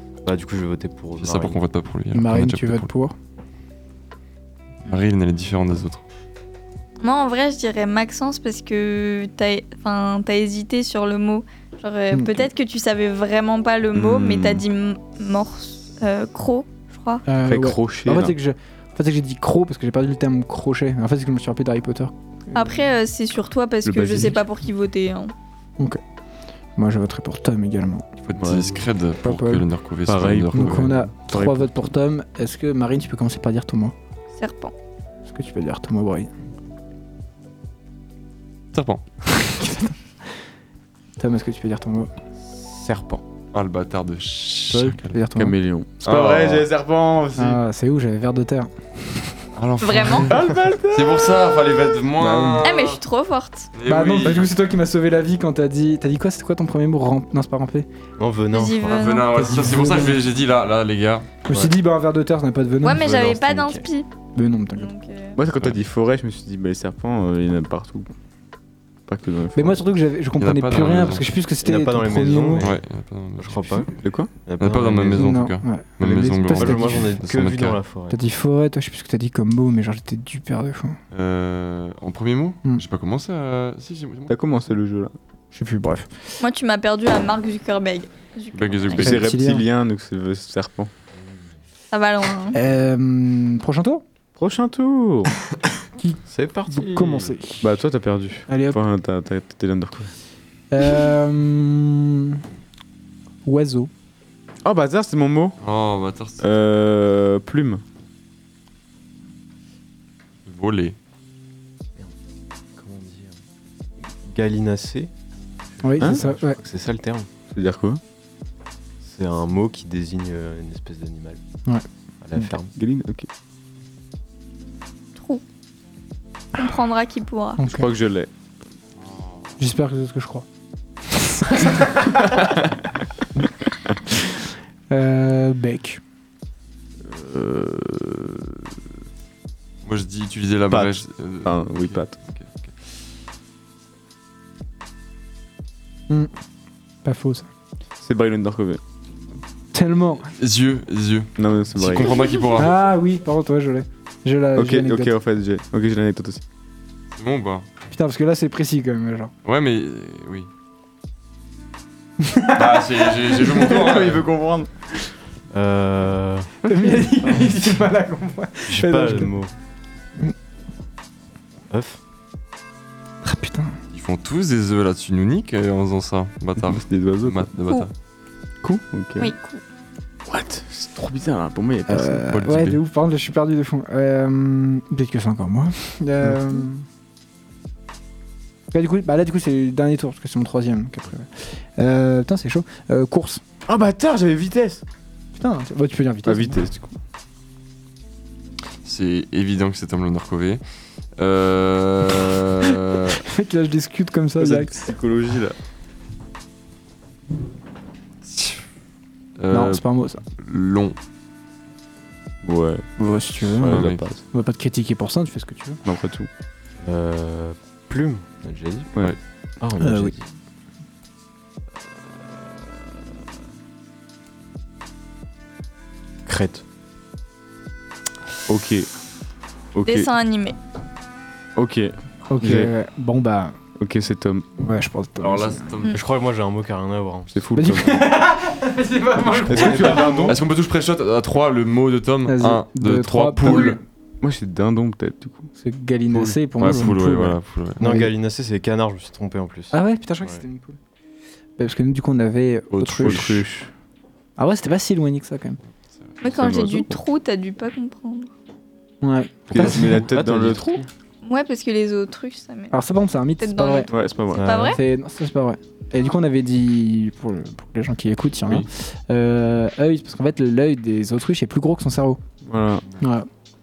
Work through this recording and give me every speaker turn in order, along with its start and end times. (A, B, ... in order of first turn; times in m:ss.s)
0:00.2-0:01.6 A
0:01.2-0:02.9 B
0:02.1-0:03.1 C
0:04.8-0:06.0 B
0:07.0-0:17.2 D
0:12.1-0:12.5 C
0:13.9-0:14.6 E
0:17.3-0:22.7 C
0:17.4-0:18.3 E
0:22.5-0:25.3 D
0:23.8-0:24.4 E
0:26.8-0:28.1 C
0:28.3-0:30.9 B
0:28.4-0:28.7 E
0:29.2-0:29.6 C
0:30.0-0:31.9 E
0:30.5-0:33.9 C
0:34.3-0:34.7 D
0:35.3-0:36.3 C
0:38.7-0:39.0 B
0:39.3-0:40.0 C
0:41.2-0:42.1 C
0:42.7-0:43.2 E
0:43.5-0:45.1 B
0:44.7-0:45.5 C
0:45.4-0:47.6 E
0:46.0-0:46.6 B
0:47.4-0:49.3 C
0:49.6-0:53.0 B
0:49.8-0:50.3 D
0:50.3-0:51.3 E
0:52.2-0:52.6 C
0:52.6-0:53.7 D
0:53.7-0:54.5 B
0:53.8-0:57.9 C
0:58.2-0:59.2 A
0:58.5-0:59.3 D
0:58.8-1:01.3 B
0:59.3-1:00.2 C
1:01.4-1:03.2 C
1:02.8-1:04.1 D
1:02.8-1:03.8 A
1:04.4-1:04.9 C
1:04.7-1:05.3 D
1:05.4-1:08.1 E
1:09.1-1:09.8 E
1:09.5-1:12.7 C
1:10.4-1:11.3 B
1:11.6-1:12.8 A
1:12.6-1:13.8 B
1:13.4-1:15.4 A
1:14.0-1:14.3 E
1:14.6-1:17.8 B
1:15.1-1:17.2 C
1:16.5-1:18.2 A
1:18.1-1:21.0 C
1:21.1-1:24.3 B
1:24.3-1:25.1 E
1:25.5-1:26.1 C
1:26.4-1:29.0 D
1:28.5-1:29.2 B
1:28.9-1:30.9 E
1:29.0-1:29.6 C
1:31.9-1:32.6 D
1:32.5-1:34.0 C
1:34.4-1:35.3 E
1:36.0-1:37.7 C
1:36.3-1:37.3 A
1:37.6-1:40.1 E
1:38.5-1:38.8 C
1:40.7-1:42.4 C
1:43.4-1:43.9 C
1:44.6-1:45.6 E
1:45.6-1:46.4 B
1:46.4-1:47.8 E
1:50.4-1:51.0 B
1:52.8-1:53.4 A
1:54.1-1:55.1 A
1:55.7-1:57.3 A
1:55.8-1:56.6 C
1:56.0-1:56.2 E
1:57.5-1:58.0 E
1:59.0-2:01.4 A
2:02.2-2:02.7 A
2:02.8-2:03.3 E
2:05.2-2:05.4 D
2:06.6-2:07.6 D
2:07.6-2:07.9 C
2:07.6-2:08.3 E
2:09.0-2:09.6 B
2:09.6-2:10.4 C
2:11.1-2:12.5 C
2:14.9-2:16.0 C
2:17.0-2:18.7 E
2:19.8-2:22.8 B
2:20.7-2:22.2 E
2:27.0-2:27.5 C
2:28.0-2:28.8 E
2:29.7-2:30.3 C
2:30.3-2:32.7 B
2:31.4-2:32.2 E
2:32.6-2:35.1 C
2:34.6-2:36.4 E
2:37.1-2:37.6 B
2:37.9-2:39.3 C
2:39.4-2:40.5 B
2:42.2-2:43.7 C
2:42.5-2:44.2 B
2:43.6-2:44.7 E
2:45.5-2:46.5 A
2:46.6-2:49.3 C
2:48.7-2:49.5 A
2:51.7-2:52.0 A
2:53.2-2:53.8 C
2:53.9-2:57.9 B
2:56.6-2:57.5 E
2:58.6-2:59.3 E
2:59.2-2:59.6 D
3:00.2-3:02.2 E
3:01.9-3:06.8 C
3:02.3-3:02.8 B
3:08.7-3:13.4 C
3:13.7-3:14.8 E
3:15.4-3:16.7 C
3:16.2-3:16.8 E
3:18.8-3:20.6 B
3:21.2-3:23.2 B
3:23.2-3:24.8 C
3:24.4-3:25.5 E
3:28.2-3:28.6 B
3:29.4-3:29.8 B
3:29.5-3:30.2 C
3:30.3-3:31.0 B
3:32.4-3:32.8 E
3:33.0-3:35.8 C
3:33.5-3:34.2 E
3:33.6-3:34.0 B
3:35.8-3:36.3 E
3:36.8-3:38.9 A
3:39.6-3:40.3 A
3:39.8-3:40.1 C
3:46.2-3:46.6 A
3:48.5-3:48.9 E
3:49.7-3:50.1 E
3:49.8-3:50.6 D
3:51.6-3:52.7 E
3:52.3-3:53.6 C
3:53.8-3:54.4 E
3:54.6-3:55.7 C
3:55.2-3:56.0 B
3:55.9-3:57.4 A
3:57.3-3:58.0 E
3:57.5-4:00.3 C
3:59.4-4:00.4 E
3:59.6-4:03.8 B
3:59.7-4:00.3 A
4:02.3-4:03.8 C
4:04.2-4:05.5 E
4:05.6-4:08.1 C
4:06.5-4:07.8 B
4:07.8-4:10.4 A
4:09.7-4:10.8 C
4:11.6-4:13.4 C
4:12.7-4:13.3 B
4:13.0-4:13.7 E
4:14.4-4:15.6 C
4:16.0-4:16.5 B
4:16.2-4:18.3 D
4:16.3-4:17.0 E
4:19.0-4:20.1 C
4:19.5-4:20.9 E
4:19.5-4:20.8 A
4:21.2-4:22.7 D
4:22.7-4:23.9 C
4:23.4-4:24.8 D
4:23.9-4:24.4 E
4:24.3-4:24.8 A
4:24.7-4:32.2 C
4:32.4-4:32.8 E
4:33.0-4:33.3 C